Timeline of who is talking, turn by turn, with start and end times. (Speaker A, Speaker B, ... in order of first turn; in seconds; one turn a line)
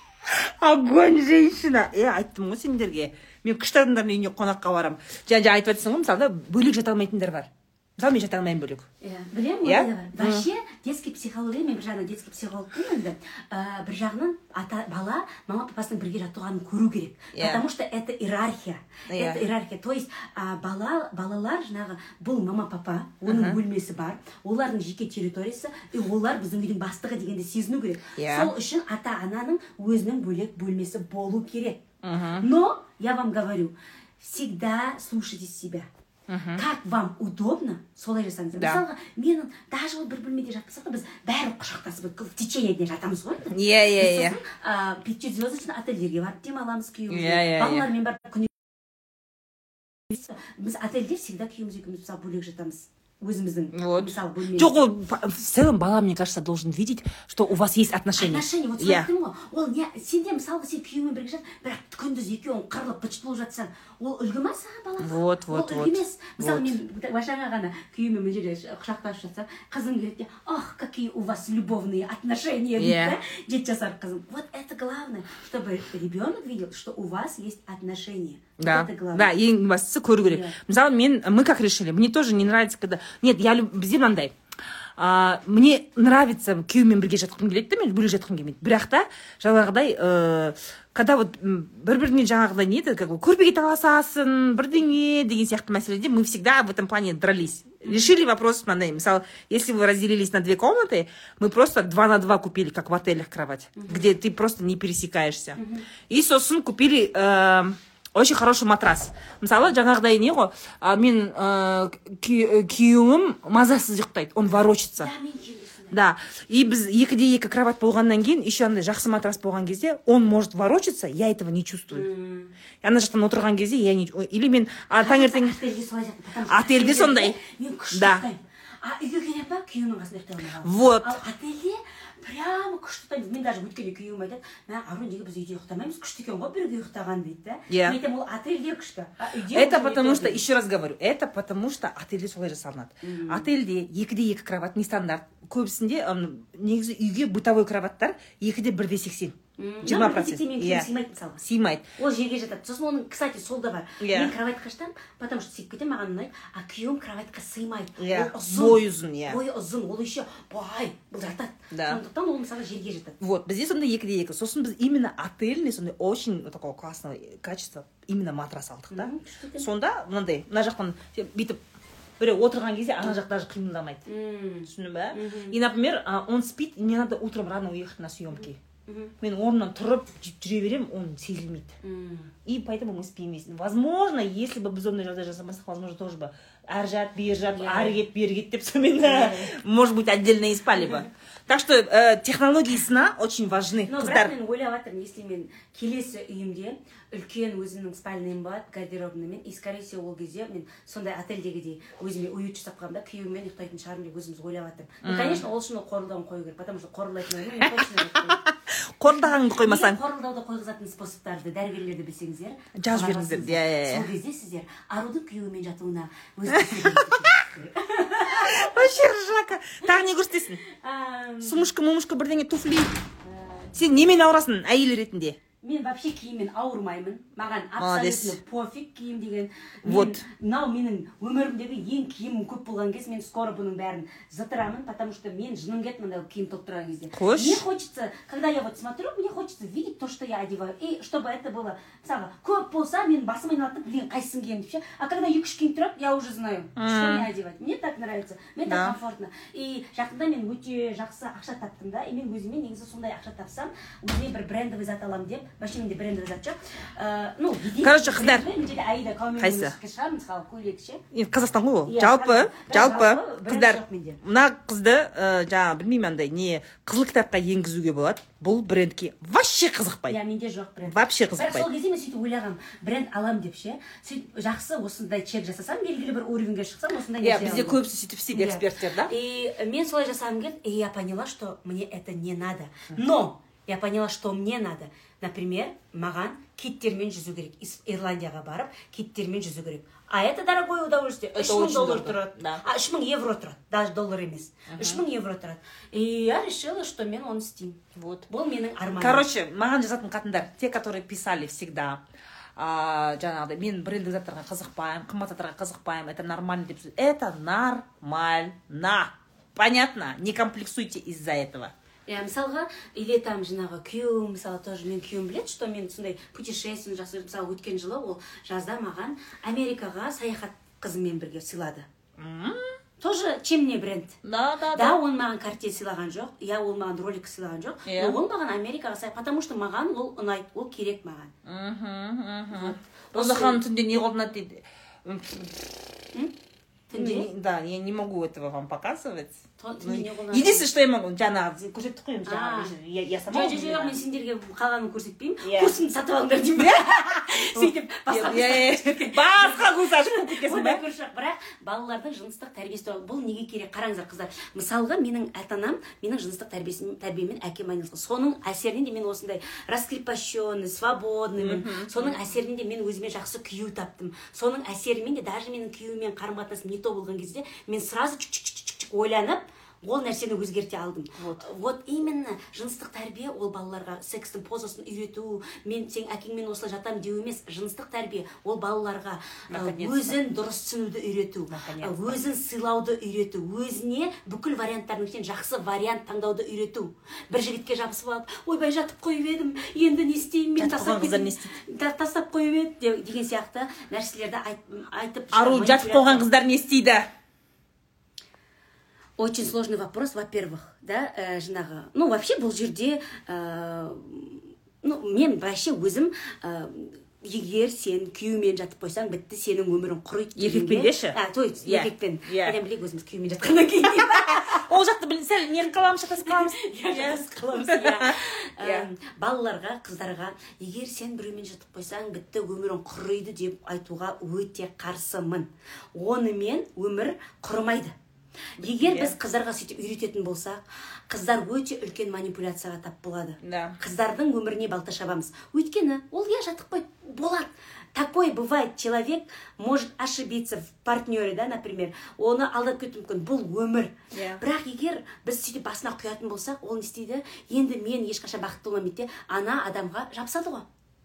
Speaker A: 0.3-8.9
Speaker B: 9.0-31.8
Speaker A: 9.7-10.5
Speaker A: 17.4-17.6
Speaker A: 19.1-19.5
Speaker A: 23.3-23.6
Speaker A: 28.2-28.5
Speaker A: 32.0-32.5
Speaker B: 32.4-35.9
Speaker A: 36.3-36.6
Speaker B: 36.5-48.5
Speaker A: 38.6-38.8
Speaker A: 43.5-44.4
Speaker A: 47.1-47.9
Speaker B: 50.1-54.8
Speaker A: 53.7-59.1
Speaker B: 58.2-79.3
Speaker A: 65.0-66.7
Speaker A: 72.8-73.2
Speaker A: 78.6-84.3
Speaker B: 80.2-80.6
Speaker A: 85.0-115.1
Speaker B: 103.8-104.0
Speaker B: 105.6-105.9
Speaker B: 115.0-116.0
Speaker A: 115.9-122.1
Speaker B: 121.9-122.5
Speaker A: 122.8-125.6
Speaker B: 125.0-140.4
Speaker A: 126.5-127.4
Speaker A: 127.9-128.2
Speaker A: 130.6-131.2
Speaker A: 137.7-138.0
Speaker A: 139.5-150.9
Speaker B: 143.0-143.5
Speaker B: 149.6-151.4
Speaker A: 151.4-151.9
Speaker B: 152.0-163.2
Speaker A: 154.0-154.3
Speaker A: 158.0-159.4
Speaker A: 161.7-162.0
Speaker A: 163.2-171.6
Speaker B: 168.9-169.7
Speaker A: 172.2-174.0
Speaker B: 174.1-175.6
Speaker A: 174.7-178.6
Speaker B: 178.9-179.1
Speaker A: 179.2-181.8
Speaker B: 181.8-182.3
Speaker A: 182.4-194.3
Speaker B: 187.6-187.9
Speaker B: 189.0-189.6
Speaker B: 190.8-191.1
Speaker B: 193.9-208.4
Speaker A: 205.0-205.4
Speaker A: 207.6-210.0
Speaker B: 209.6-219.0
Speaker A: 212.8-214.1
Speaker A: 216.5-217.4
Speaker A: 218.2-220.6
Speaker B: 220.6-221.7
Speaker A: 221.4-223.0
Speaker B: 223.2-223.8
Speaker A: 223.7-225.4
Speaker B: 225.6-261.0
Speaker A: 227.8-228.4
Speaker A: 229.8-230.2
Speaker A: 237.1-237.6
Speaker A: 246.8-247.3
Speaker A: 248.7-249.0
Speaker A: 257.8-258.5
Speaker A: 259.4-259.8
Speaker A: 261.1-270.2
Speaker B: 261.9-264.2
Speaker B: 270.1-277.8
Speaker A: 270.9-271.7
Speaker A: 277.2-279.1
Speaker B: 278.3-299.3
Speaker A: 291.3-292.6
Speaker A: 294.7-295.0
Speaker A: 298.0-298.3
Speaker A: 299.0-302.0
Speaker A: 302.6-311.7
Speaker B: 312.1-321.9
Speaker A: 322.2-322.8
Speaker B: 323.0-324.2
Speaker A: 324.2-325.0
Speaker B: 324.7-331.3
Speaker A: 327.9-328.2
Speaker A: 331.4-335.7
Speaker B: 332.5-333.6
Speaker B: 336.9-337.3
Speaker A: 336.9-344.0
Speaker B: 339.6-340.7
Speaker B: 342.2-396.3
Speaker A: 345.4-345.7
Speaker A: 346.6-350.8
Speaker A: 361.4-362.1
Speaker A: 371.2-371.4
Speaker A: 379.5-380.2
Speaker A: 381.5-382.2
Speaker A: 390.6-391.6
Speaker A: 395.3-397.1
Speaker B: 399.2-414.6
Speaker A: 410.4-412.6
Speaker A: 414.3-418.9
Speaker B: 416.3-427.9
Speaker B: 428.6-450.7
Speaker A: 428.6-429.1
Speaker A: 433.4-433.8
Speaker A: 444.1-444.4